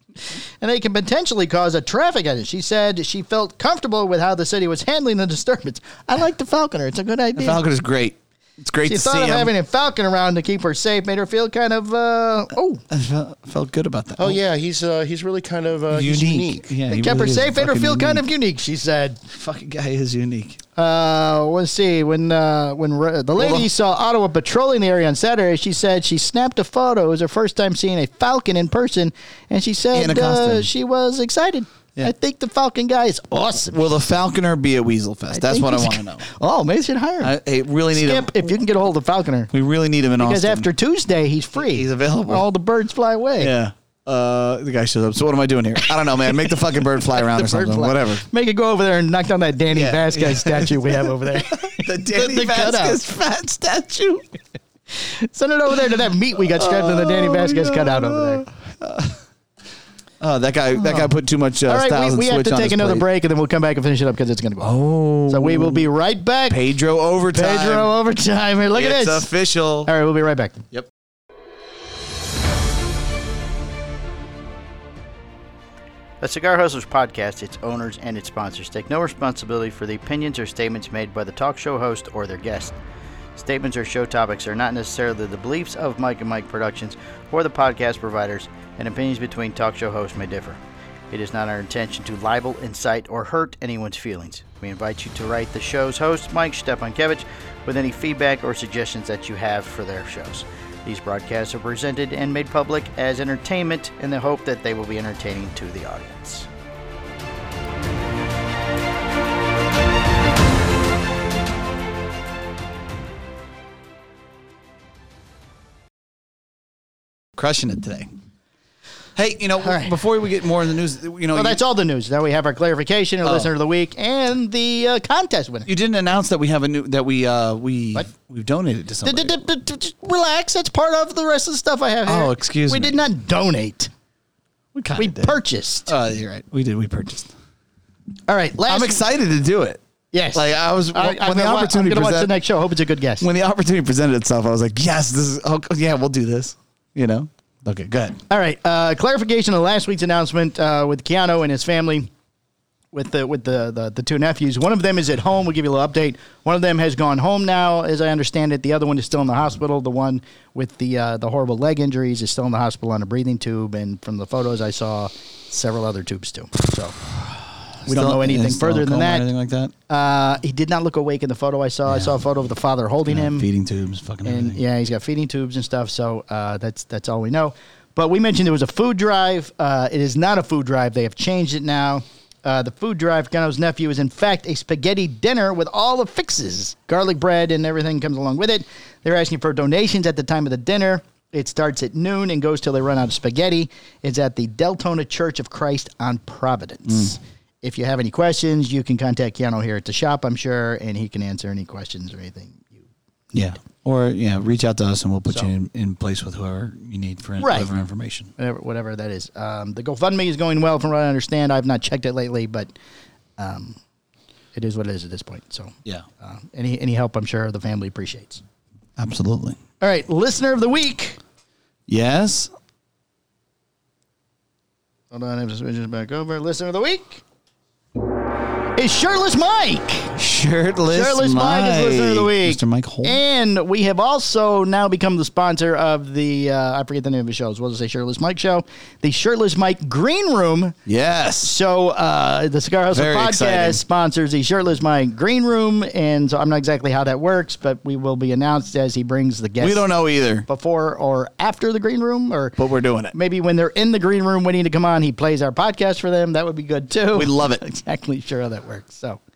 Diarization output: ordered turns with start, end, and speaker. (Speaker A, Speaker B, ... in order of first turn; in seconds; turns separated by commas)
Speaker A: 0.6-7.6, Speaker B: 7.3-9.5, Speaker A: 8.8-12.8, Speaker B: 12.9-14.4, Speaker C: 14.2-16.6, Speaker B: 15.9-18.2, Speaker A: 16.9-19.2, Speaker B: 19.3-20.6, Speaker A: 20.8-33.9, Speaker B: 23.4-23.7, Speaker B: 29.9-30.7, Speaker B: 33.6-36.2, Speaker A: 35.3-37.3, Speaker B: 37.2-38.5, Speaker A: 37.9-39.5, Speaker B: 39.5-40.7, Speaker A: 40.2-43.5, Speaker B: 41.5-42.5, Speaker B: 43.4-48.2, Speaker A: 47.1-53.0, Speaker B: 49.7-54.2, Speaker A: 54.9-58.5, Speaker B: 56.5-59.2, Speaker B: 60.2-63.0, Speaker A: 60.8-61.1, Speaker A: 61.7-64.7, Speaker B: 64.6-65.9, Speaker A: 65.3-66.6, Speaker B: 66.5-67.9, Speaker A: 67.3-69.3, Speaker B: 68.7-69.9, Speaker A: 69.8-70.6, Speaker A: 76.2-82.8, Speaker A: 83.3-90.6, Speaker A: 91.1-106.5, Speaker B: 117.3-118.1, Speaker B: 119.2-121.6, Speaker A: 119.6-119.9, Speaker A: 121.3-125.7, Speaker B: 123.2-123.5, Speaker B: 125.7-129.4, Speaker A: 129.0-133.9, Speaker B: 132.0-133.0, Speaker B: 134.7-137.3, Speaker A: 134.9-135.9, Speaker A: 138.3-139.0, Speaker B: 138.7-139.8, Speaker A: 140.1-143.3, Speaker B: 140.3-142.3, Speaker B: 143.2-148.2, Speaker A: 148.3-152.1, Speaker A: 152.9-167.0, Speaker B: 167.2-169.7, Speaker A: 167.8-169.2, Speaker A: 169.9-173.5, Speaker B: 171.8-172.2, Speaker B: 173.1-174.6, Speaker A: 174.2-203.5, Speaker B: 196.9-197.2, Speaker B: 203.3-208.3, Speaker A: 207.4-207.7, Speaker A: 208.4-212.7, Speaker A: 213.4-213.8, Speaker A: 214.5-218.4, Speaker B: 219.0-219.6, Speaker A: 219.8-221.2, Speaker B: 221.9-222.5, Speaker A: 225.1-227.2, Speaker A: 228.8-230.1, Speaker B: 230.2-233.2, Speaker A: 230.9-240.8, Speaker B: 240.8-241.5, Speaker A: 241.4-249.9, Speaker B: 242.9-243.8, Speaker B: 249.6-250.5, Speaker A: 250.4-252.6, Speaker B: 252.6-253.2, Speaker A: 253.1-259.2, Speaker B: 257.1-257.6